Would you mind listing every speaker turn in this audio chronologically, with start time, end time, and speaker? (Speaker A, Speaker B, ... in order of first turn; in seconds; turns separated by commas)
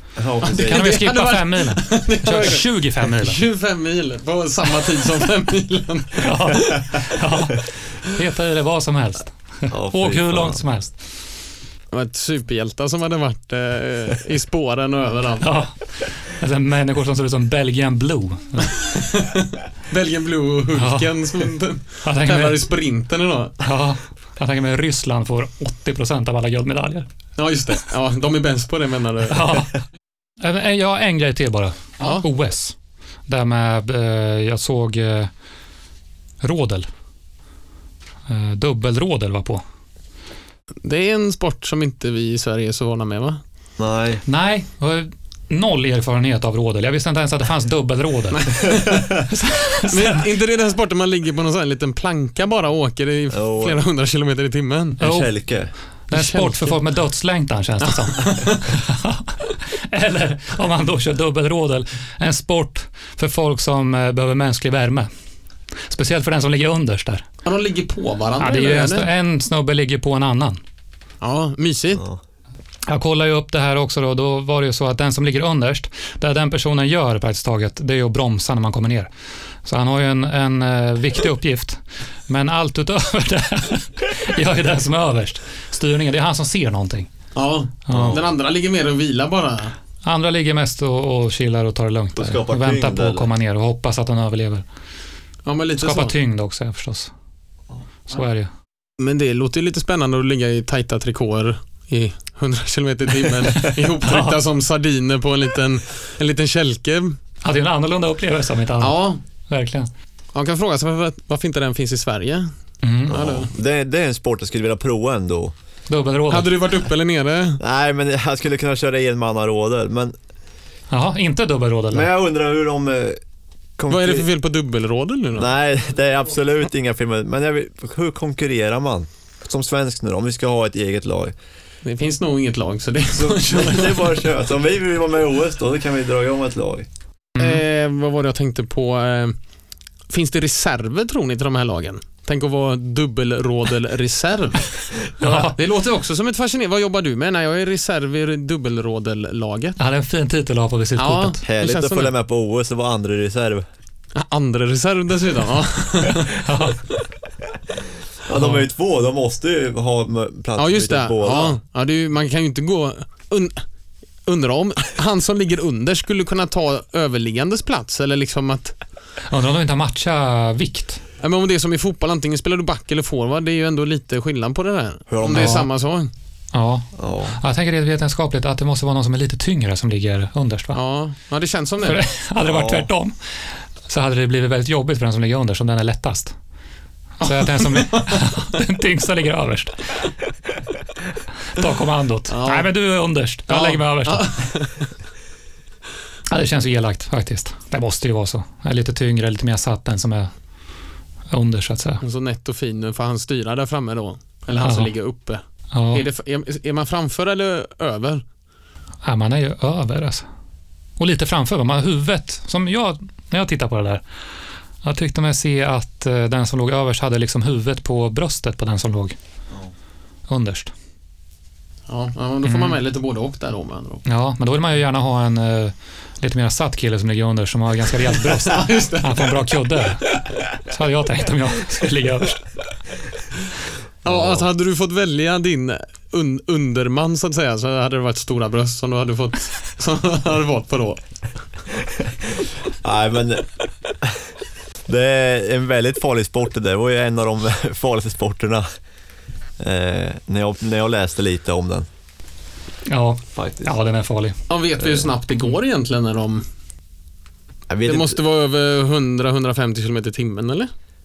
Speaker A: 0.2-0.9, Speaker B: 0.4-3.4, Speaker C: 0.4-6.7, Speaker B: 6.2-10.9, Speaker A: 9.7-10.6, Speaker C: 11.9-15.5, Speaker B: 15.4-18.8, Speaker C: 18.9-23.6, Speaker B: 20.7-21.3, Speaker B: 22.0-22.6, Speaker B: 23.6-27.1, Speaker C: 27.4-29.5, Speaker B: 29.3-29.8, Speaker B: 30.4-32.8, Speaker B: 33.3-35.3, Speaker B: 36.4-36.9, Speaker B: 38.3-39.6, Speaker C: 40.8-43.4, Speaker A: 43.8-44.2, Speaker B: 44.3-48.7, Speaker C: 48.4-49.1, Speaker A: 48.7-49.2, Speaker B: 49.3-50.2, Speaker C: 49.8-55.0, Speaker A: 53.3-53.8, Speaker B: 55.0-55.3, Speaker A: 55.0-55.7, Speaker B: 56.1-65.1, Speaker C: 56.1-56.8, Speaker C: 57.8-58.7, Speaker B: 65.9-67.3, Speaker C: 67.4-69.1, Speaker B: 68.4-70.6, Speaker C: 71.2-72.0, Speaker B: 72.9-79.1, Speaker B: 79.6-87.1, Speaker C: 87.3-89.7, Speaker B: 87.9-88.2, Speaker A: 87.9-88.2, Speaker B: 90.0-94.6, Speaker A: 92.2-93.3, Speaker C: 95.5-96.1, Speaker B: 95.8-97.1, Speaker B: 98.1-98.5, Speaker C: 99.0-107.2, Speaker B: 103.5-104.4, Speaker B: 107.4-109.9, Speaker C: 108.8-109.2, Speaker C: 110.3-112.5, Speaker B: 112.8-113.2, Speaker A: 113.1-115.5, Speaker C: 113.1-113.5, Speaker B: 115.9-116.6, Speaker C: 116.3-117.6, Speaker A: 117.6-120.1, Speaker B: 120.9-122.1, Speaker A: 121.9-123.2, Speaker A: 123.8-124.3, Speaker C: 123.9-125.5, Speaker A: 125.3-131.3, Speaker C: 131.8-134.2, Speaker A: 133.1-136.9, Speaker B: 137.4-137.6, Speaker C: 137.4-139.4, Speaker C: 140.1-149.8, Speaker B: 145.2-145.6, Speaker B: 149.8-151.4, Speaker C: 151.0-152.1, Speaker A: 151.5-153.6, Speaker C: 154.1-156.4, Speaker B: 156.4-156.8, Speaker A: 158.3-161.6, Speaker B: 158.3-158.6, Speaker C: 160.6-163.6, Speaker C: 164.3-168.8, Speaker B: 169.3-171.0, Speaker C: 171.2-176.1, Speaker A: 175.1-175.6, Speaker B: 175.3-175.7, Speaker B: 176.5-180.8, Speaker A: 177.0-177.4, Speaker C: 180.7-182.0, Speaker B: 181.8-183.1, Speaker A: 182.4-182.9, Speaker B: 183.9-186.3, Speaker C: 187.2-188.3, Speaker B: 187.2-189.9, Speaker B: 191.5-194.3, Speaker C: 192.3-192.7, Speaker C: 193.5-194.9, Speaker B: 196.3-200.3, Speaker B: 201.3-202.0, Speaker C: 202.0-208.2, Speaker B: 204.6-204.9, Speaker B: 205.7-206.0, Speaker B: 209.1-210.2, Speaker B: 211.0-214.0, Speaker B: 214.8-219.2, Speaker B: 220.3-220.7, Speaker C: 221.9-224.1, Speaker B: 222.4-222.8, Speaker B: 224.1-230.1, Speaker C: 228.1-229.4, Speaker B: 230.6-232.4, Speaker C: 234.0-241.0, Speaker A: 234.1-234.4, Speaker A: 242.0-243.5, Speaker A: 244.9-248.7, Speaker A: 249.6-251.9, Speaker B: 252.9-254.4, Speaker A: 253.4-253.7, Speaker C: 254.5-256.4, Speaker A: 257.7-258.2, Speaker C: 257.9-260.7